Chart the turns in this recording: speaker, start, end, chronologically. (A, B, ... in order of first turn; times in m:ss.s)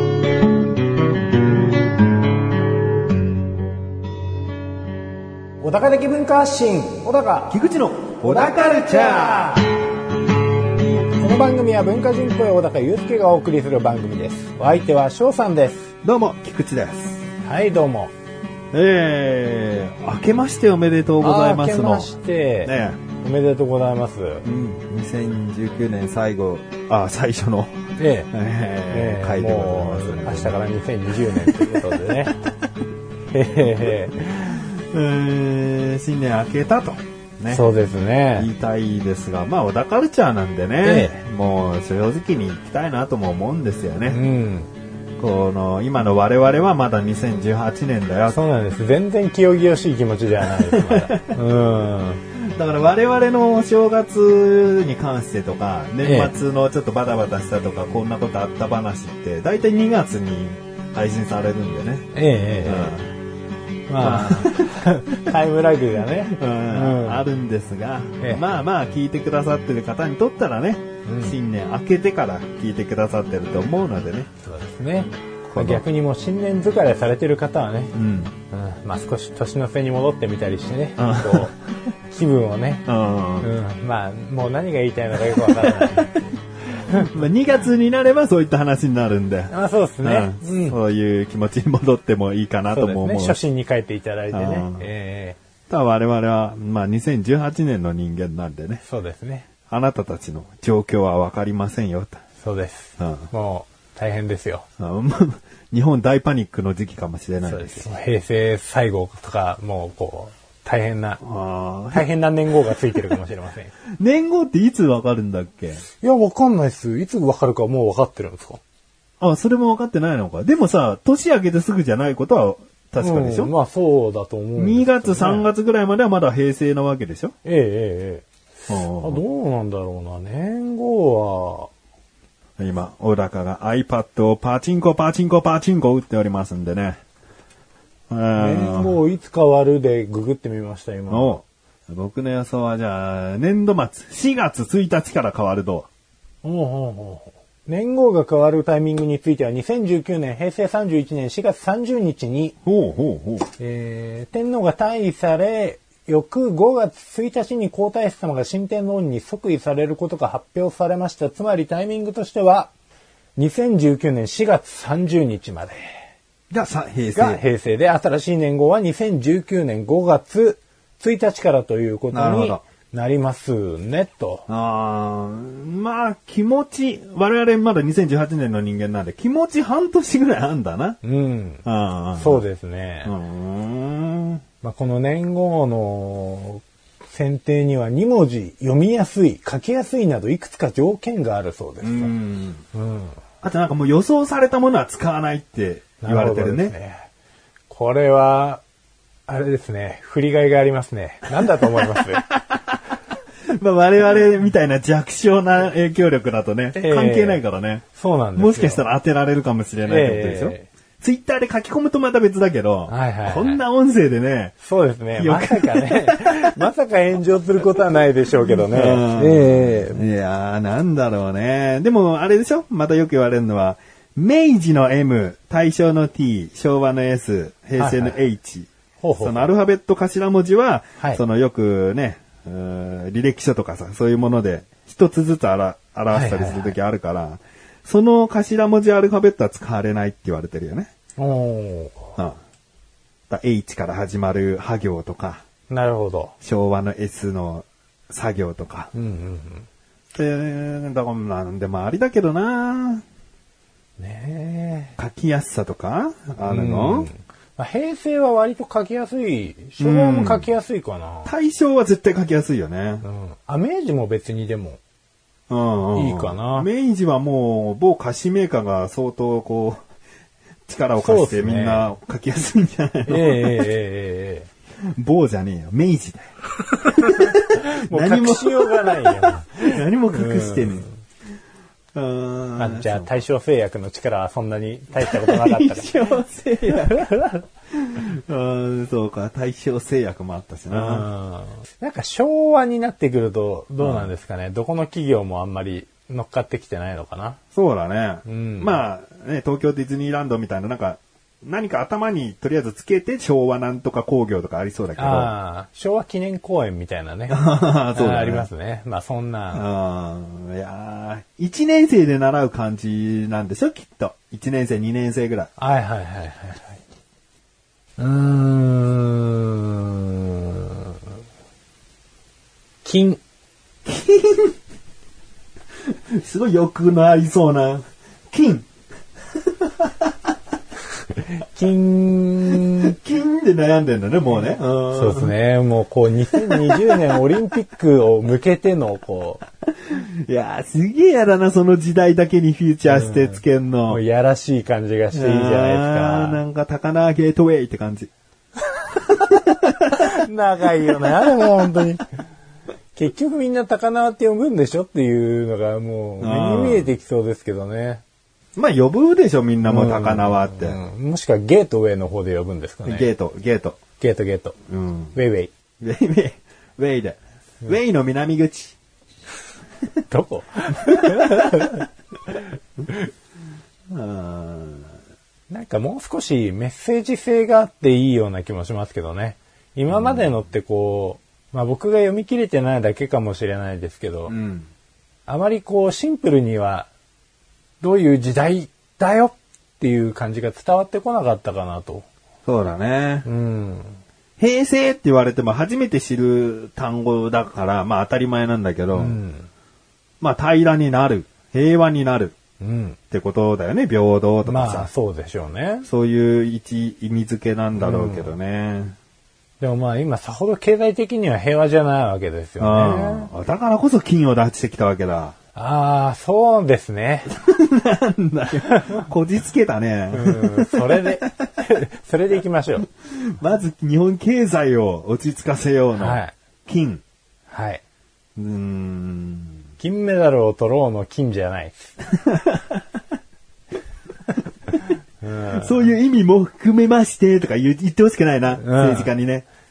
0:05.6-0:07.6 A
0:07.5-0:09.6 B
0:08.2-0:09.7 A
0:11.2-0:15.9 A
0:16.0-0:17.3 B
0:17.4-0:18.1 A
0:18.7-0:22.1 B
0:21.2-0:24.4 A
0:22.6-0:23.0 B
0:24.4-0:27.8 B
0:28.0-0:28.3 A
0:28.3-0:30.6 B
0:28.9-0:32.4 A
0:31.4-0:32.0 B
0:33.3-0:34.7 A
0:34.4-0:37.6 B
0:37.5-0:38.5 A
0:38.4-0:44.2 B
0:40.8-0:41.2 A
0:44.1-0:44.7 A
0:45.2-0:48.4 B
0:48.3-0:52.2 A
0:50.4-0:51.3 B
0:52.4-1:03.1 B
0:56.0-0:56.3 A
1:02.1-1:03.0 A
1:03.9-1:07.2 A
1:04.0-1:05.3 B
1:06.3-1:14.3 B
1:11.1-1:11.4 A
1:14.4-1:18.0 A
1:15.5-1:15.8 B
1:17.9-1:18.3 B
1:18.5-1:21.6 A
1:21.0-1:21.5 B
1:22.1-1:22.9 A
1:22.9-1:23.5 B
1:23.4-1:26.2 A
1:25.4-1:26.1 B
1:26.9-1:27.2 A
1:26.9-1:33.4 B
1:29.5-1:30.8 A
1:32.7-1:35.4 A
1:34.3-1:34.8 B
1:35.7-1:38.8 B
1:38.8-1:39.5 A
1:39.7-1:42.2 B
1:42.4-1:44.7 A
1:43.0-1:43.3 B
1:44.8-1:47.9 B
1:47.4-1:51.2 A
1:51.2-1:52.1 B
1:51.9-1:53.7 A
1:54.0-1:55.8 B
1:56.0-1:58.6 A
1:59.2-2:03.5 B
2:03.0-2:05.5 A
2:04.6-2:07.3 B
2:07.4-2:08.2 A
2:08.7-2:09.2 B
2:09.0-2:11.7 A
2:12.6-2:17.0 B
2:18.1-2:19.0 B
2:18.4-2:21.4 A
2:21.1-2:25.9 B
2:26.4-2:32.6 A
2:32.6-2:33.5 B
2:33.6-2:42.7 A
2:43.4-2:45.9 A
2:46.5-2:47.4 B
2:47.2-2:54.5 A
2:52.1-2:52.6 B
2:54.5-3:01.0 B
3:01.0-3:01.6 A
3:01.6-3:02.4 B
3:02.2-3:03.1 A
3:03.0-3:04.4 B
3:04.6-3:12.1 A
3:11.8-3:12.6 B
3:12.7-3:13.2 A
3:13.4-3:16.8 B
3:16.0-3:17.1 A
3:17.7-3:18.6 A
3:19.3-3:22.3 A
3:21.5-3:22.8 B
3:23.5-3:27.8 B
3:26.7-3:27.4 A
3:27.9-3:28.8 A
3:28.4-3:34.6 B
3:29.8-3:30.7 A
3:32.9-3:33.6 A
3:34.6-3:40.0 A
3:35.2-3:36.6 B
3:38.4-3:48.7 B
3:47.8-3:48.2 A
3:49.0-3:49.5 A
3:49.2-4:00.9 B
3:56.1-3:56.8 A
4:01.2-4:02.1 A
4:03.3-4:05.4 B
4:05.7-4:06.3 A
4:06.4-4:08.9 B
4:08.9-4:09.7 A
4:10.1-4:13.0 B
4:14.0-4:15.0 A
4:15.0-4:17.1 B
4:16.5-4:21.3 A
4:19.8-4:20.5 B
4:21.2-4:23.0 B
4:23.0-4:24.8 A
4:25.5-4:29.8 B
4:25.9-4:26.7 A
4:30.7-4:33.7 B
4:31.0-4:31.9 A
4:33.1-4:34.5 A
4:35.0-4:36.3 B
4:37.0-4:41.0 A
4:37.0-4:40.9 B
4:42.0-4:43.1 B
4:42.6-4:46.2 A
4:45.0-4:47.1 B
4:46.9-4:47.4 A
4:47.7-4:51.1 B
4:50.7-4:57.4 A
4:53.8-4:54.1 B
4:57.5-5:05.3 B
4:58.3-4:58.8 A
5:05.0-5:09.7 A
5:07.3-5:08.5 B
5:09.5-5:15.5 B
5:15.6-5:16.8 A
5:18.0-5:21.0 A
5:22.8-5:23.2 A
5:23.8-5:24.6 B
5:25.9-5:28.7 B
5:29.4-5:30.1 B
5:31.3-5:33.0 A
5:32.8-5:35.3 B
5:34.9-5:39.4 A
5:36.3-5:37.0 B
5:39.9-5:44.0 B
5:42.9-5:46.4 A
5:45.1-5:48.1 B
5:49.2-5:49.9 B
5:49.9-5:52.0 A
5:53.0-5:58.0 A
5:56.2-5:56.9 B
5:58.6-6:00.8 B
5:59.6-6:03.1 A
6:02.8-6:03.8 B
6:04.0-6:04.6 A
6:04.7-6:05.2 B
6:05.1-6:05.5 A
6:05.8-6:08.8 B
6:10.1-6:11.9 A
6:10.8-6:11.5 B
6:13.9-6:14.9 B
6:15.5-6:24.3 A
6:19.9-6:20.3 B
6:24.3-6:24.7 B
6:25.3-6:26.9 A
6:27.8-6:32.1 A
6:32.5-6:33.3 B
6:33.2-6:34.0 A
6:34.4-6:39.2 B
6:39.0-6:39.5 A
6:40.2-6:42.4 B
6:42.6-6:43.0 A
6:43.1-6:44.9 B
6:44.5-6:45.9 A
6:45.9-6:49.0 B
6:47.8-6:48.4 A
6:49.6-6:53.3 A
6:52.6-6:55.4 B
6:55.6-6:57.3 A
6:57.3-7:01.1 B
6:58.6-6:59.0 A
7:00.1-7:02.9 A
7:03.0-7:07.0 B
7:06.0-7:06.3 A
7:07.5-7:07.8 A
7:08.4-7:09.6 B
7:09.8-7:11.9 A
7:12.3-7:12.8 B
7:15.2-7:15.9 A
7:15.5-7:19.5 B
7:18.6-7:19.1 A